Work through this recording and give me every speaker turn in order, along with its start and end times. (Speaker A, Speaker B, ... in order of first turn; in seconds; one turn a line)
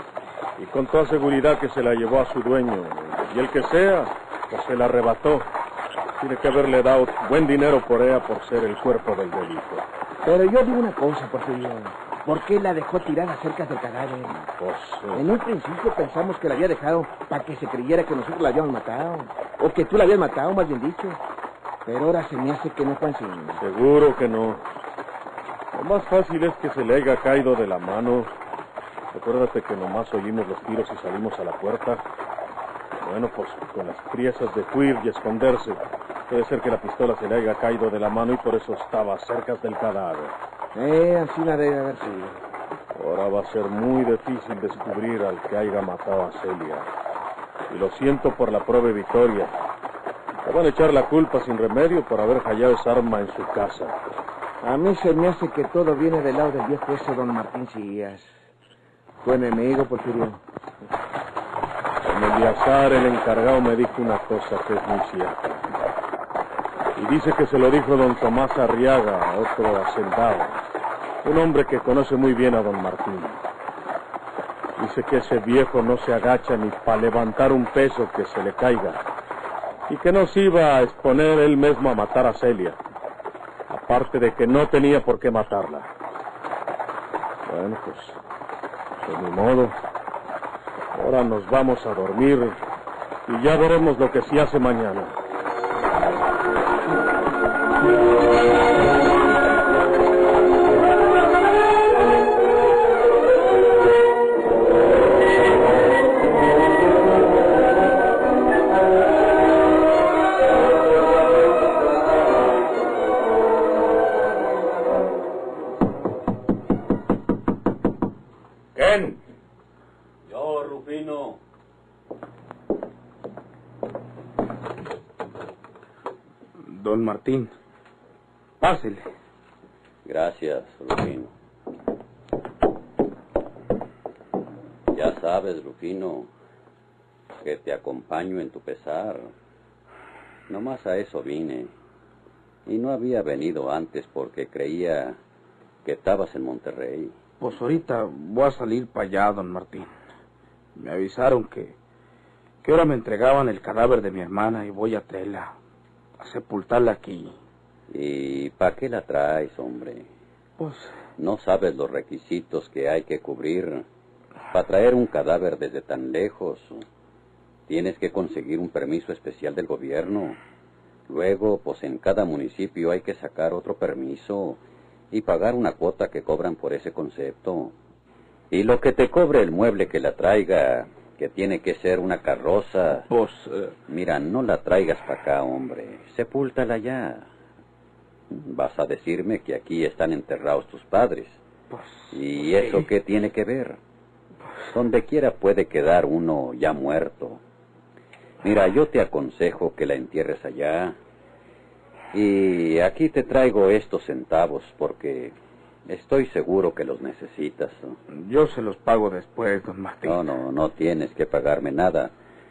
Speaker A: 0.6-5.5
Speaker A: 6.2-9.8
Speaker B: 10.2-14.3
Speaker A: 14.3-15.2
Speaker B: 15.1-21.2
Speaker B: 21.8-23.6
Speaker A: 23.6-24.6
Speaker A: 25.7-28.3
Speaker A: 29.1-32.0
Speaker A: 33.0-40.4
Speaker B: 40.7-42.4
Speaker A: 42.9-46.9
Speaker A: 47.7-49.5
Speaker A: 50.4-54.0
Speaker B: 54.6-58.3
Speaker B: 59.2-60.4
Speaker A: 62.0-65.6
Speaker A: 67.0-70.6
Speaker A: 71.2-73.4
Speaker A: 74.8-79.0
Speaker A: 79.9-82.8
Speaker A: 83.7-85.9
Speaker A: 87.5-88.2
Speaker A: 89.0-89.8
Speaker A: 90.9-92.6
Speaker A: 93.3-95.2
Speaker A: 118.8-119.1
Speaker C: 120.3-121.4
Speaker D: 126.6-127.5
Speaker D: 128.6-129.1
Speaker C: 130.0-131.3
Speaker C: 134.9-136.3
Speaker C: 137.4-139.3
Speaker C: 140.5-141.7
Speaker C: 142.7-145.2
Speaker C: 145.8-147.1
Speaker D: 147.4-149.9
Speaker D: 150.8-151.7
Speaker D: 152.6-155.6
Speaker D: 156.2-157.4
Speaker C: 157.9-160.1
Speaker D: 160.6-160.9
Speaker C: 161.2-163.8
Speaker C: 164.5-166.8
Speaker C: 167.7-170.4
Speaker C: 171.1-174.6
Speaker C: 175.1-177.7
Speaker C: 178.5-183.1
Speaker D: 183.1-183.7
Speaker C: 183.9-187.3
Speaker C: 188.3-191.4
Speaker D: 191.7-192.8
Speaker C: 192.1-193.8
Speaker C: 194.7-197.4
Speaker C: 198.4-200.9
Speaker C: 202.1-205.3
Speaker C: 205.9-208.0
Speaker D: 208.1-210.2
Speaker C: 210.0-212.1